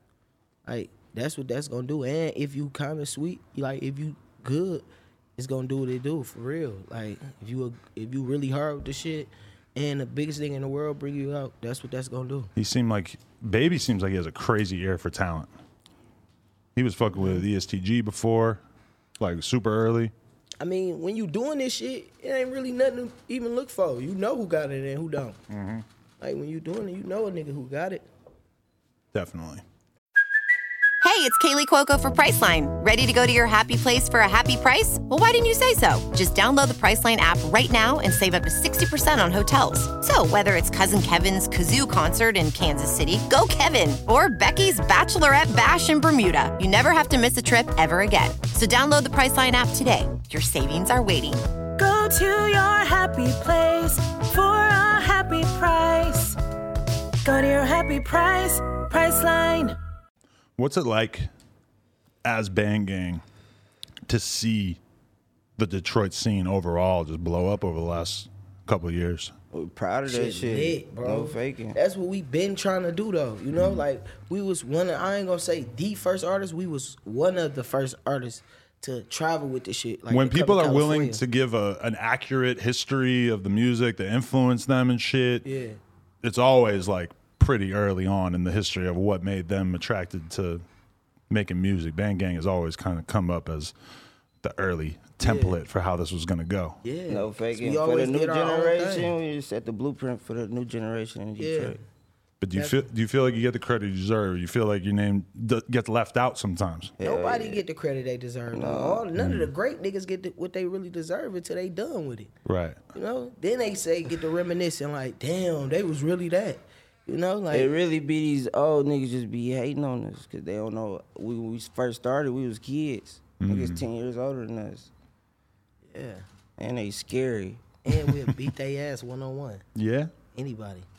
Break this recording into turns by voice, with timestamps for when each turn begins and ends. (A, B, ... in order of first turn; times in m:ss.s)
0:00.6-0:12.5 A
0:12.6-0:15.5 B
0:16.8-0:18.6 B
0:19.2-0:20.1 B
0:20.6-0:25.4 A
0:25.5-0:25.8 B
0:26.2-0:28.0 A
0:29.1-0:29.6 B
0:31.0-0:51.5 C
0:51.8-0:56.4 D
0:57.2-0:59.8 D
1:00.6-1:01.3 B
1:02.2-1:03.2 B
1:04.1-1:04.8 B
1:05.6-1:09.3 B
1:09.5-1:11.8 E
1:10.1-1:21.2 A
1:20.1-1:25.5 B
1:25.4-1:25.8 A
1:26.2-1:30.6 B
1:31.3-1:33.7 B
1:34.4-1:36.8 B
1:35.2-1:35.6 A
1:36.8-1:39.2 A
1:37.1-1:41.8 E
1:41.4-1:41.8 A
1:42.4-1:46.9 B
1:42.5-1:42.9 A
1:47.0-1:47.6 E
1:47.0-1:52.3 A
1:48.5-1:49.1 E
1:49.2-1:49.5 B
1:52.4-1:52.8 B
1:52.9-1:57.7 A
1:57.5-2:04.9 E
2:03.4-2:03.8 B
2:05.9-2:06.2 A
2:06.6-2:07.6 E
2:07.8-2:09.6 A
2:08.1-2:08.4 B
2:09.8-2:10.1 B
2:10.3-2:10.9 A